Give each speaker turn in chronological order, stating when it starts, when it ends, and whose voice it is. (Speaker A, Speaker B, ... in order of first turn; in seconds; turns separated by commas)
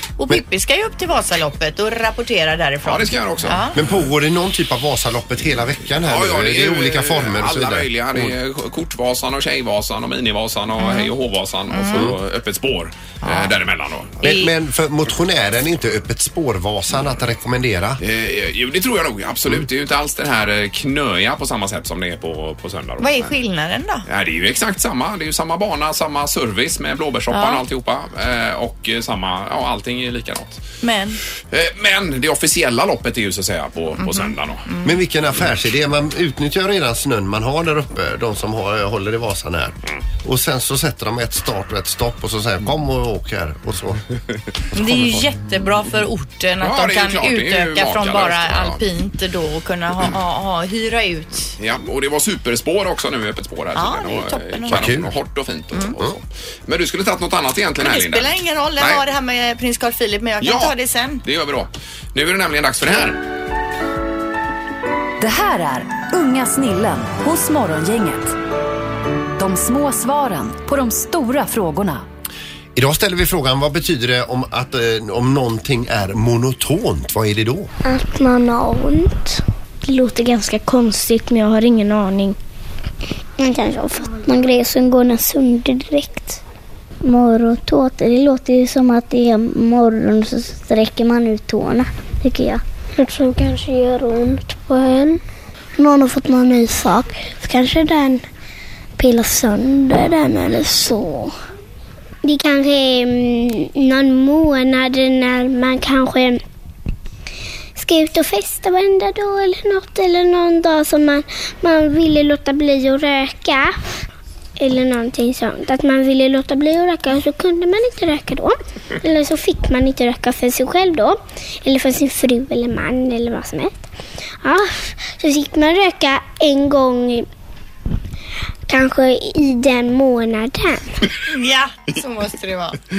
Speaker A: 0.2-3.8, Speaker B: 2.8-3.7, Speaker C: 3.7-8.3, Speaker B: 6.0-14.2, Speaker A: 10.8-11.1, Speaker A: 11.7-12.1, Speaker A: 13.2-13.5, Speaker C: 14.2-18.0, Speaker A: 14.2-14.5, Speaker B: 18.0-23.3, Speaker A: 23.0-24.0, Speaker B: 24.1-30.6, Speaker A: 27.3-27.6, Speaker A: 30.8-31.2, Speaker B: 31.5-34.6, Speaker A: 34.0-34.9, Speaker C: 34.8-44.0, Speaker A: 44.7-51.5, Speaker B: 46.6-48.8, Speaker B: 51.6-59.0, Speaker A: 53.7-54.9, Speaker C: 54.7-55.1, Speaker A: 57.8-61.2, Speaker B: 60.4-63.2, Speaker D: 65.2-68.3, Speaker D: 69.4-72.0, Speaker C: 72.8-77.7, Speaker E: 77.8-82.3, Speaker E: 83.4-86.4, Speaker E: 87.0-95.2, Speaker E: 95.8-98.2, Speaker E: 99.0-101.3, Speaker E: 102.2-106.4, Speaker E: 107.8-113.8, Speaker E: 114.6-123.8, Speaker E: 124.4-127.3, Speaker E: 128.7-130.8, Speaker A: 131.3-132.8